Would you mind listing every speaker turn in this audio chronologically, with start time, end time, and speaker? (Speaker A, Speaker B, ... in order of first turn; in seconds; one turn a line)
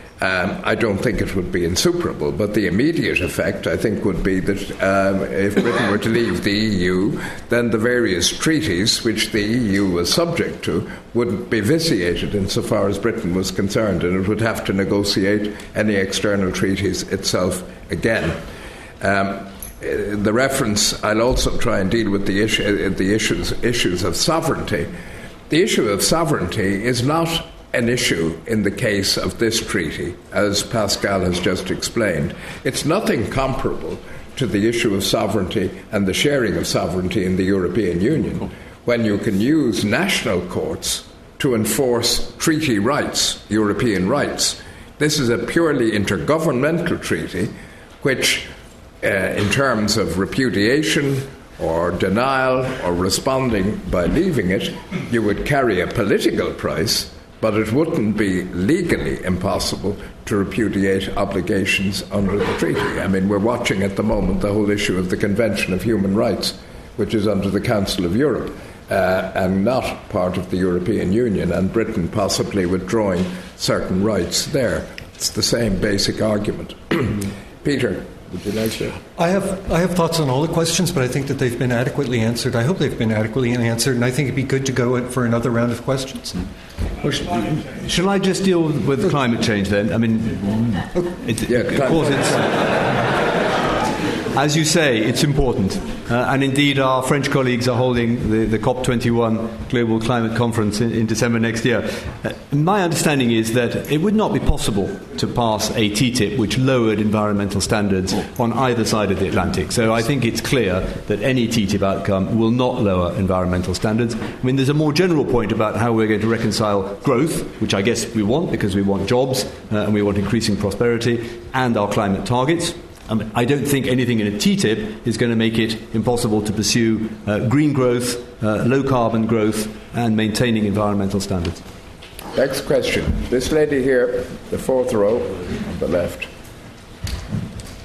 Speaker A: 0.2-18.4
Speaker A: 19.0-24.9
Speaker A: 25.5-48.5
Speaker A: 49.0-79.0
Speaker B: 79.2-86.4
Speaker C: 87.0-92.8
Speaker A: 91.5-92.1
Speaker C: 94.3-131.6
Speaker A: 132.3-136.3